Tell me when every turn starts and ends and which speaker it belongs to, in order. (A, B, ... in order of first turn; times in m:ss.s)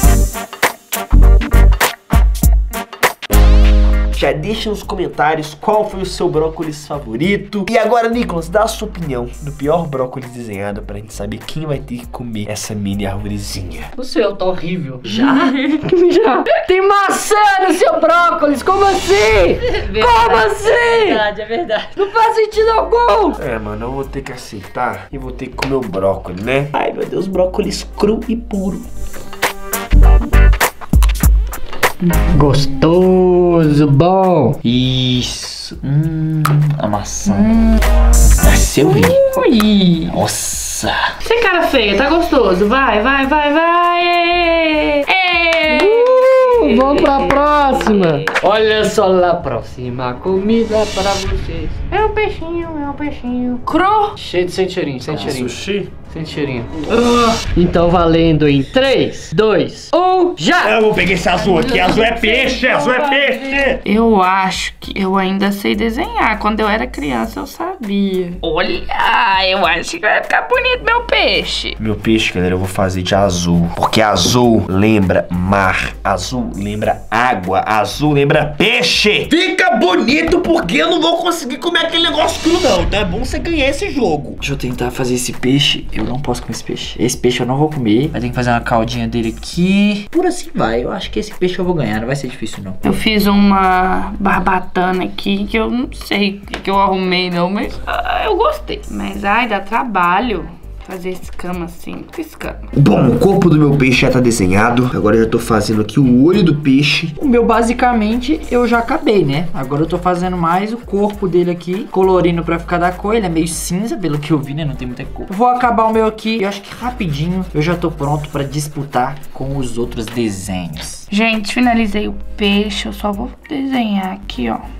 0:04.1-0:13.9 A
0:14.0-0:21.3 B
0:15.2-0:15.7 C
0:19.6-0:21.9 D
0:22.0-0:23.4 B
0:23.4-0:28.9 A
0:32.3-0:34.6 B
0:34.6-0:37.5 D
0:37.3-0:37.8 C
0:38.4-0:39.2 D
0:38.8-0:40.2 C
0:40.1-0:41.0 D
0:41.2-0:48.4 C
0:45.7-0:53.6 B
0:53.7-0:54.2 C
0:54.2-0:56.7 B
0:55.1-0:55.4 D
0:55.1-0:55.9 A
0:57.4-1:00.8 B
1:00.0-1:00.3 C
1:00.6-1:03.8 A
1:01.3-1:11.8 C
1:11.8-1:24.4 A
1:24.4-1:33.0 D
1:32.8-1:42.7 C
1:42.8-1:47.2 A
1:47.2-2:01.1 D
2:01.1-2:04.6 C